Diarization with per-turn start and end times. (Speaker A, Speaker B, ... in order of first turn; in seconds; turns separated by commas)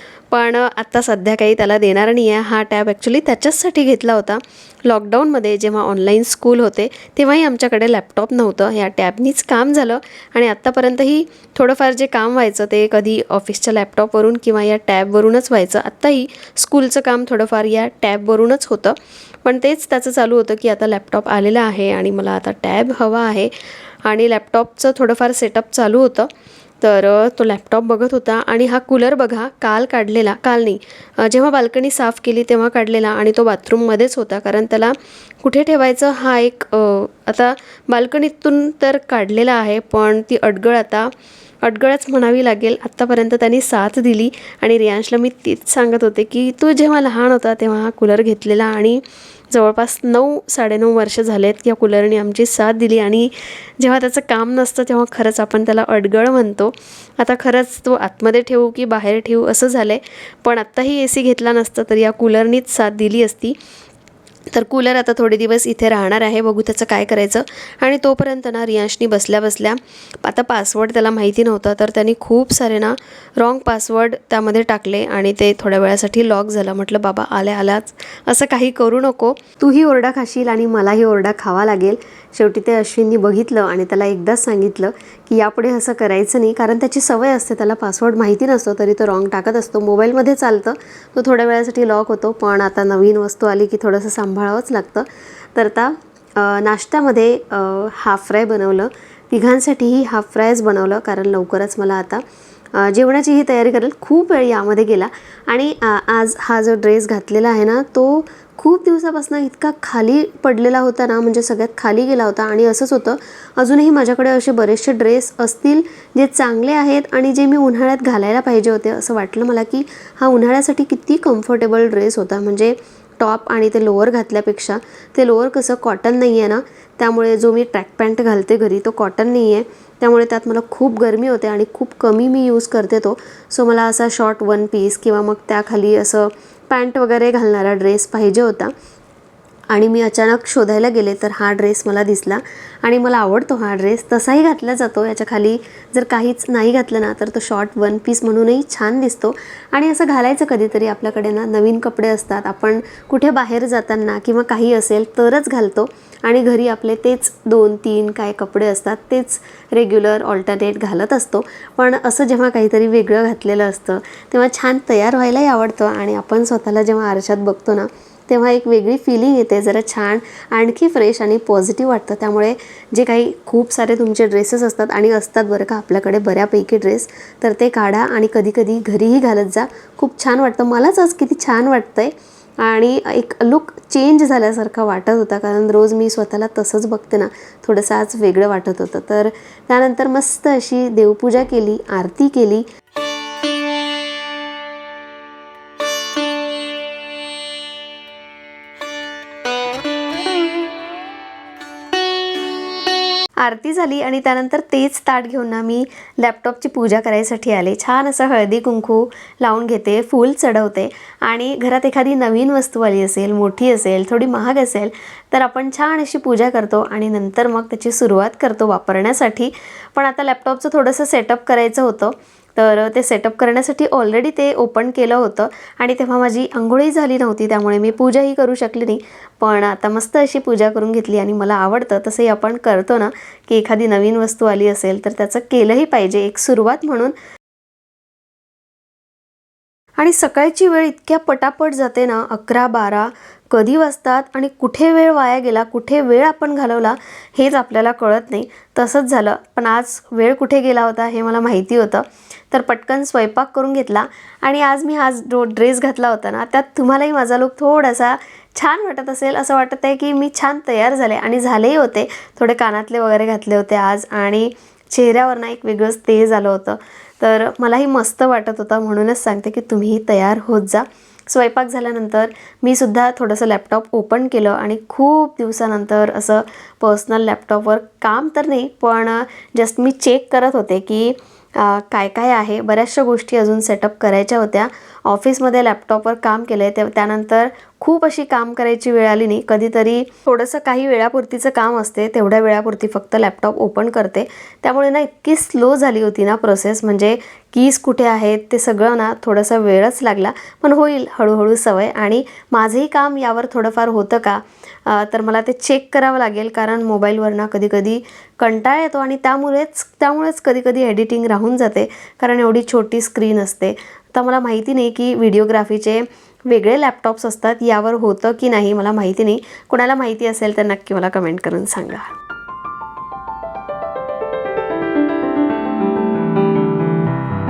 Speaker A: 0.3-23.5, Speaker A: 24.0-63.6, Speaker A: 64.5-102.2, Speaker A: 102.7-138.7, Speaker A: 139.7-192.7, Speaker A: 203.4-237.2, Speaker A: 240.0-322.1